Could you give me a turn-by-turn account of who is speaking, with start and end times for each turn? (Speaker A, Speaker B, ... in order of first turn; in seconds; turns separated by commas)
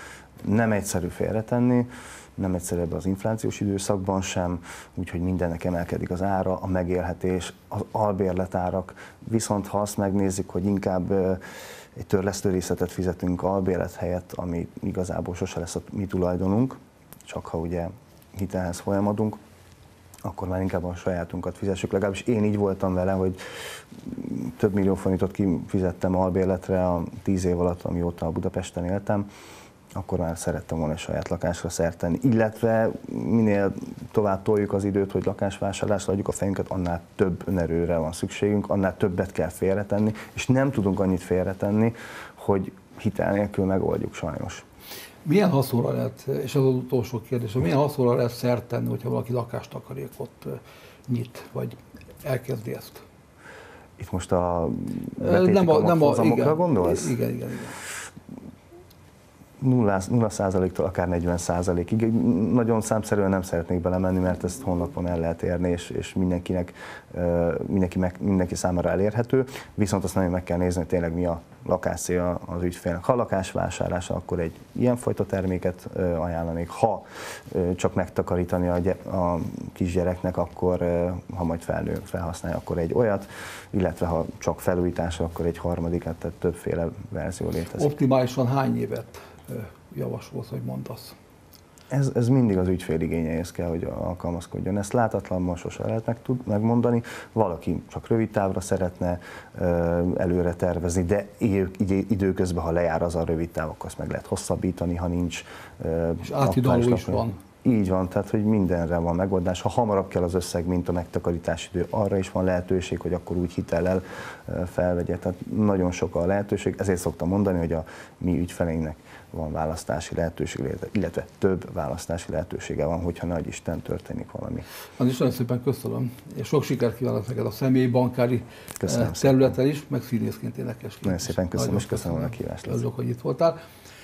Speaker A: 0.4-11.4, Speaker A: 11.9-19.4, Speaker A: 20.2-23.4, Speaker A: 23.9-29.3, Speaker A: 29.9-44.6, Speaker B: 45.2-53.0, Speaker A: 54.0-57.1, Speaker B: 55.2-57.8, Speaker A: 59.6-87.9, Speaker B: 87.8-91.2, Speaker A: 91.9-124.7, Speaker B: 106.2-107.4, Speaker B: 125.0-133.6, Speaker A: 128.8-129.5, Speaker A: 131.0-132.8